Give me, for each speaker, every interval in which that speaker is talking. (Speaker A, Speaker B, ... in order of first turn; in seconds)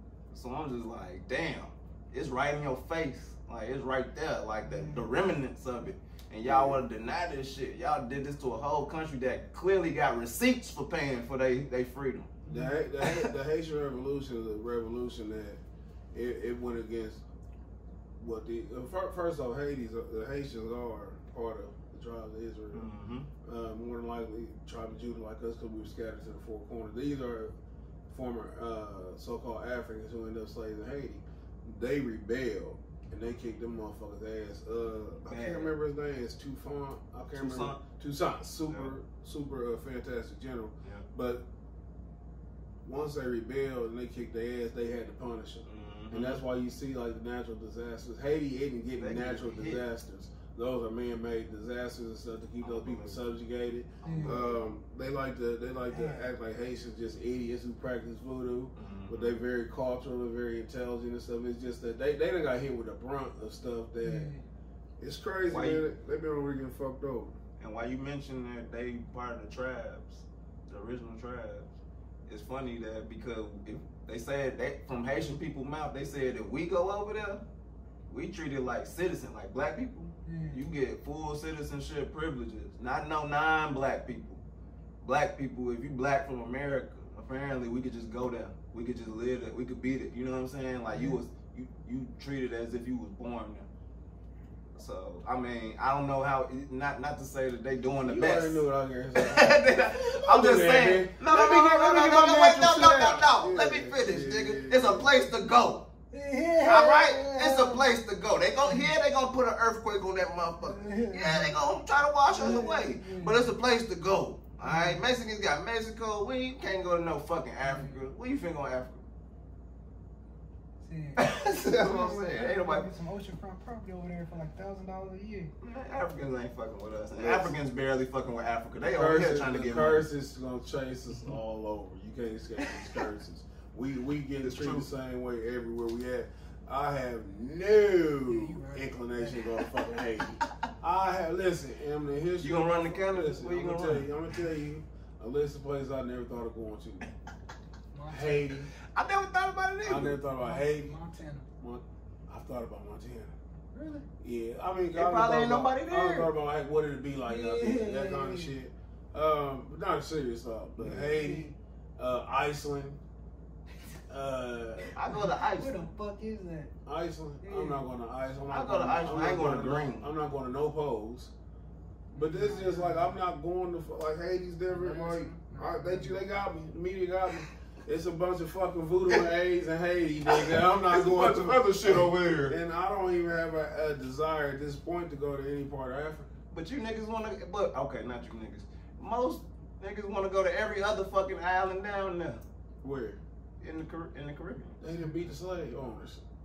Speaker A: 0.3-12.4, 13.0-13.3, 22.7-23.3, 35.3-35.7, 37.3-37.8, 45.6-46.4, 49.0-49.8, 52.6-53.2, 54.0-54.6, 58.8-59.4, 65.5-65.8, 67.6-71.7, 72.3-77.4, 78.1-84.4, 85.0-93.7, 94.8-98.6, 99.1-105.9, 106.6-119.0, 121.2-122.9, 125.6-130.1, 134.4-134.9, 142.4-144.1, 148.8-150.2, 154.9-156.3, 164.9-165.9, 168.5-170.1, 180.4-182.6, 186.5-192.4, 193.6-194.8
Speaker B: 4.6-5.1, 12.4-12.8, 54.0-54.4, 55.9-56.3, 64.0-64.4, 80.2-80.6, 90.9-91.2, 106.1-107.8, 108.6-108.9, 110.6-111.5, 112.3-113.5, 114.6-115.0, 117.6-118.0, 120.8-125.5, 131.1-131.4, 138.3-139.6, 147.9-148.7, 150.3-151.5, 153.7-154.1, 157.2-158.5, 160.8-161.6, 165.1-166.7, 167.4-167.9, 172.2-173.2, 174.7-176.2
Speaker C: 6.4-6.8, 12.5-15.6, 16.1-17.2, 18.2-22.9, 23.4-27.5, 28.1-41.4, 42.8-64.3, 65.0-67.3, 98.0-105.1, 127.2-127.6, 128.8-147.1, 148.1-148.7, 149.8-150.9, 151.6-153.3, 154.2-163.0, 164.1-165.0, 166.8-171.3, 172.1-186.3, 192.8-193.2, 194.8-196.2